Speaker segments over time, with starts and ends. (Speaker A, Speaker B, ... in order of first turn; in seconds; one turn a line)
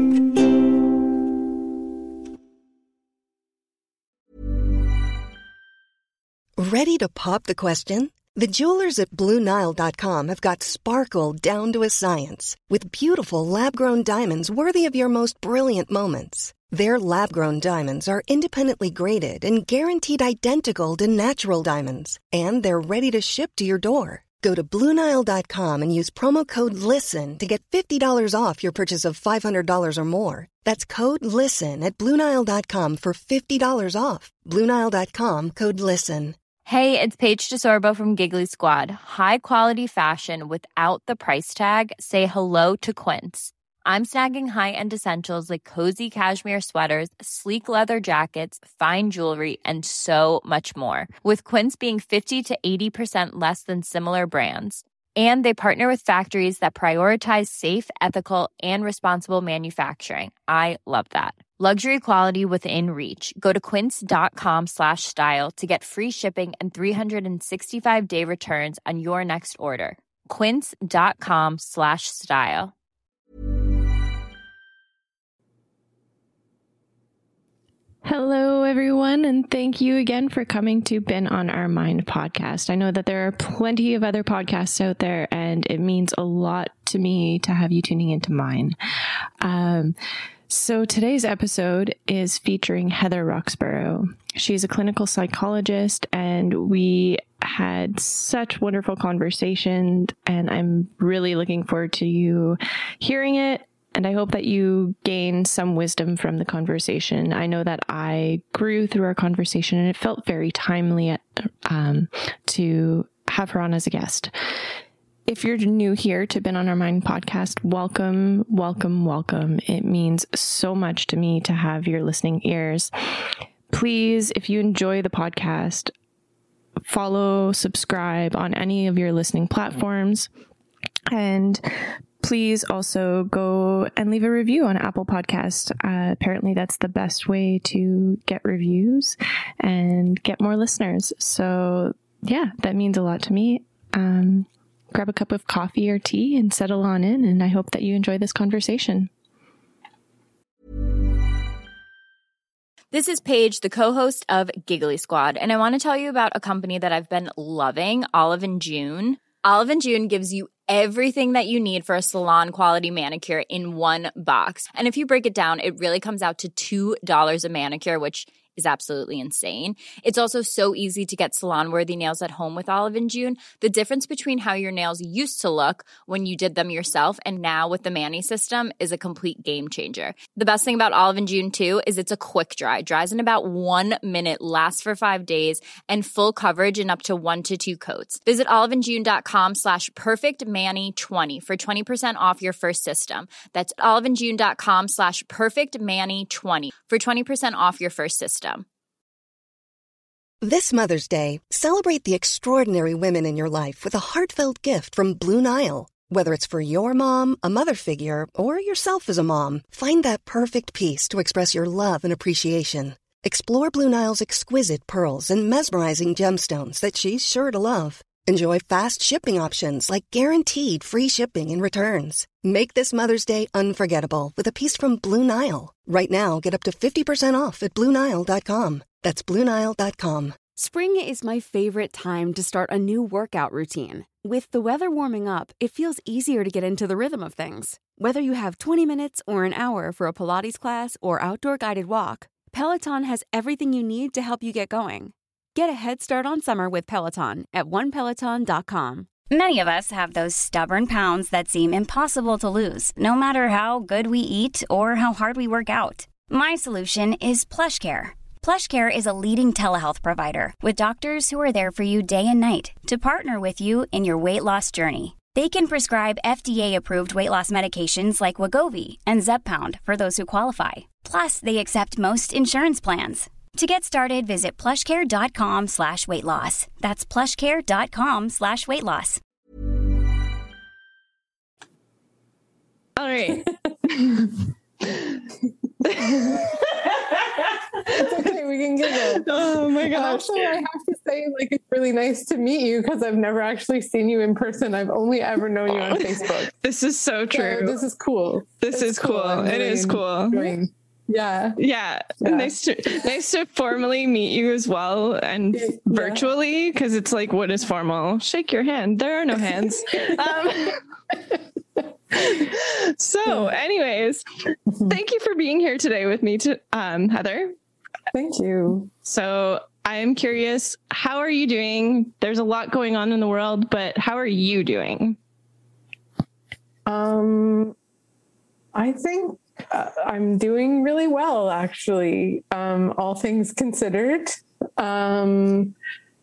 Speaker A: 6.6-36.4
Speaker B: 36.7-72.7
Speaker C: 78.0-88.8
Speaker C: 89.4-90.0
Speaker C: 90.5-114.3
Speaker C: 115.3-125.9
Speaker C: 126.9-130.3
Speaker C: 131.1-149.1
Speaker B: 152.9-198.7
Speaker A: 200.4-230.4
Speaker D: 230.6-249.1
Speaker E: 249.3-279.2
Speaker C: 283.0-285.2
Speaker C: 285.9-288.0
Speaker F: 286.0-286.4
Speaker F: 287.9-289.3
Speaker C: 289.1-290.5
Speaker F: 289.9-296.5
Speaker C: 295.7-297.8
Speaker F: 297.3-301.6
Speaker C: 298.6-300.5
Speaker C: 301.6-310.8
Speaker F: 302.2-302.5
Speaker F: 305.6-306.2
Speaker C: 312.1-314.2
Speaker F: 314.7-315.0
Speaker C: 314.9-317.5
Speaker F: 318.1-318.9
Speaker C: 319.1-325.2
Speaker F: 326.9-327.8
Speaker F: 328.8-335.7